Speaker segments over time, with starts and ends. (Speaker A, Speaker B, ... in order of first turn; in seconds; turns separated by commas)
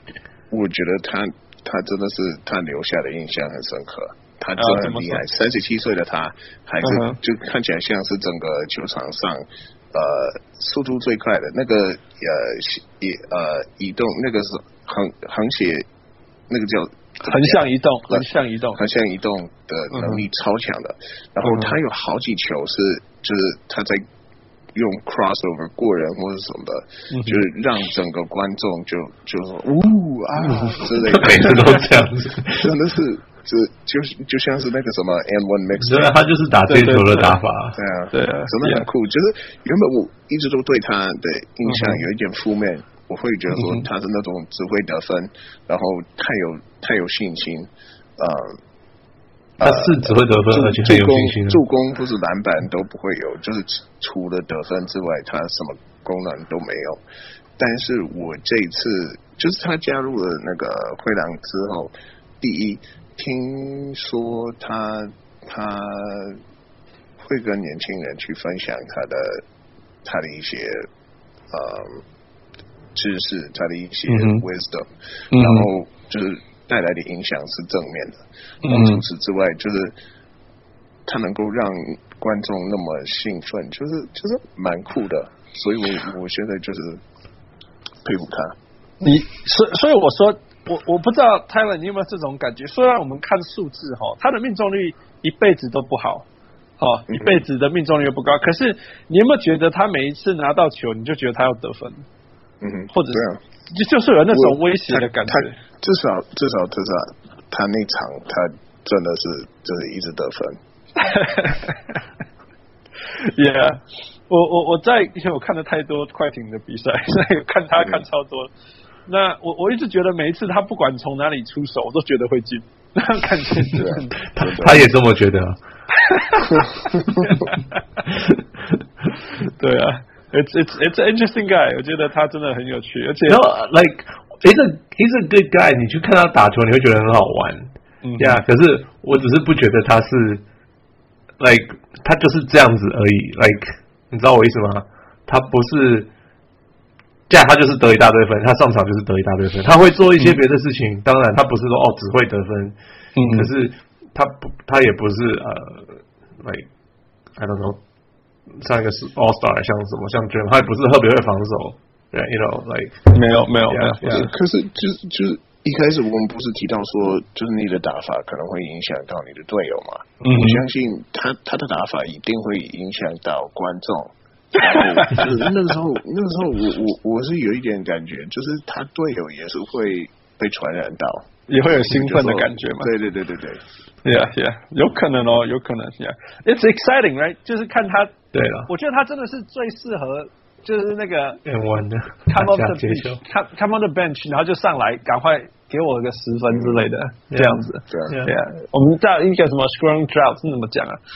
Speaker A: 0.5-15.8, Speaker B: 4.6-5.2, Speaker B: 6.8-7.2, Speaker A: 16.5-24.0, Speaker B: 17.2-18.9, Speaker B: 19.9-20.2, Speaker B: 21.4-21.8, Speaker A: 24.7-31.8, Speaker B: 27.1-27.4, Speaker B: 30.4-30.9, Speaker C: 31.0-32.7, Speaker A: 32.6-36.1, Speaker C: 35.8-37.8, Speaker B: 36.7-37.4, Speaker A: 37.7-48.6, Speaker B: 38.1-38.9, Speaker B: 41.6-42.0, Speaker B: 43.5-43.9, Speaker A: 49.6-57.0, Speaker C: 49.6-51.6, Speaker A: 57.6-66.4, Speaker A: 67.2-69.4, Speaker A: 70.0-70.9, Speaker A: 71.5-72.0, Speaker A: 72.9-80.0, Speaker B: 74.1-74.5, Speaker B: 75.3-75.7, Speaker B: 78.6-79.0, Speaker A: 81.0-87.0, Speaker A: 88.0-88.5, Speaker B: 89.0-96.3, Speaker B: 96.8-102.0, Speaker A: 97.1-97.4, Speaker A: 102.6-103.4, Speaker B: 102.9-105.6, Speaker A: 104.3-110.6, Speaker B: 111.0-112.0, Speaker B: 113.2-118.5, Speaker A: 117.8-118.0, Speaker B: 119.0-124.2, Speaker A: 123.7-124.9, Speaker C: 124.2-125.6, Speaker B: 126.0-127.8, Speaker C: 128.1-128.4, Speaker B: 129.6-133.4, Speaker C: 133.3-140.4, Speaker B: 138.0-138.4, Speaker C: 141.4-146.1, Speaker C: 147.3-156.7, Speaker B: 150.2-150.4, Speaker B: 153.2-153.5, Speaker C: 157.4-157.8, Speaker C: 158.6-163.1, Speaker B: 163.1-164.3, Speaker C: 163.7-164.3, Speaker A: 164.1-183.6, Speaker B: 170.2-170.6, Speaker B: 174.7-175.3, Speaker B: 181.5-182.9, Speaker B: 184.0-188.2, Speaker C: 188.3-188.7, Speaker B: 188.7-191.4, Speaker C: 191.4-193.2, Speaker B: 192.3-201.0, Speaker A: 196.5-196.8, Speaker C: 197.3-198.3, Speaker A: 197.9-198.1